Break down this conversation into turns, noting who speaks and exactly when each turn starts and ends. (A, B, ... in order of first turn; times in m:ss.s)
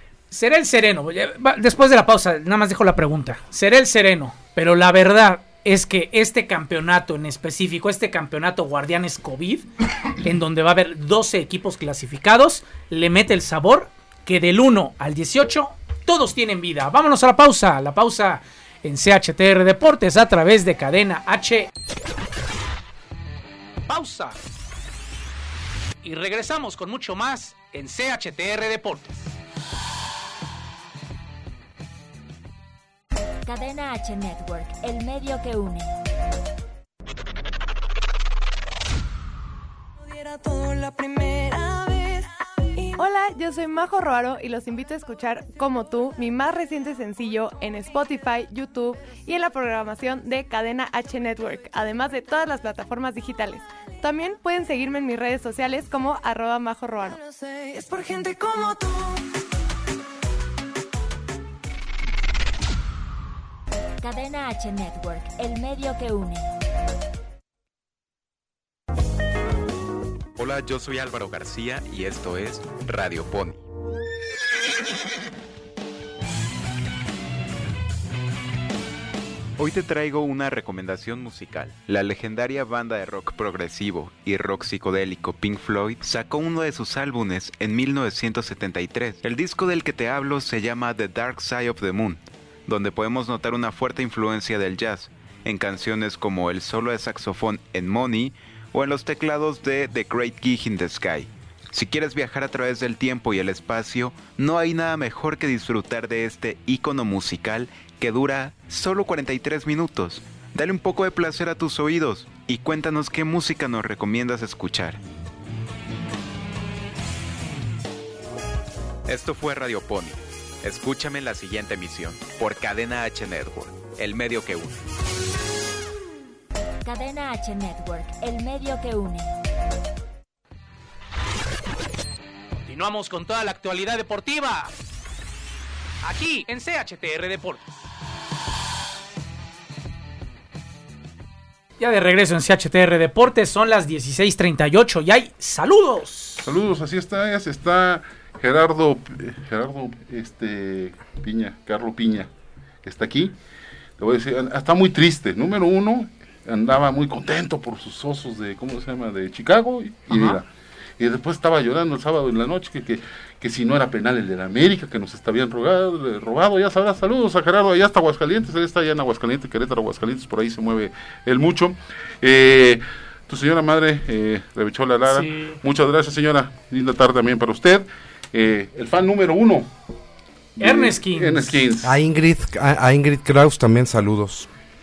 0:00.3-0:09.7 A
0:10.2-0:21.7 A
0:23.9-0:24.4 A
0:26.0-0:29.2 A
0:33.4-0:35.9 B
0:40.1-0:43.0 C
0:43.0-0:57.2 D
0:57.0-0:59.3 C
1:04.0-1:06.5 B
1:10.4-1:13.6 E
1:19.6-1:55.0 E
1:59.0-2:04.8 E
2:06.8-2:09.3 B
2:12.6-2:14.7 A
2:16.0-2:17.6 A
2:21.8-2:26.5 A
2:26.4-2:32.3 F
2:32.8-2:33.3 F
2:34.0-2:40.5 F
2:40.1-2:40.4 A
2:41.0-2:59.7 F
2:55.1-2:55.6 A
3:00.6-3:02.0 F
3:00.6-3:01.6 A
3:01.8-3:04.5 G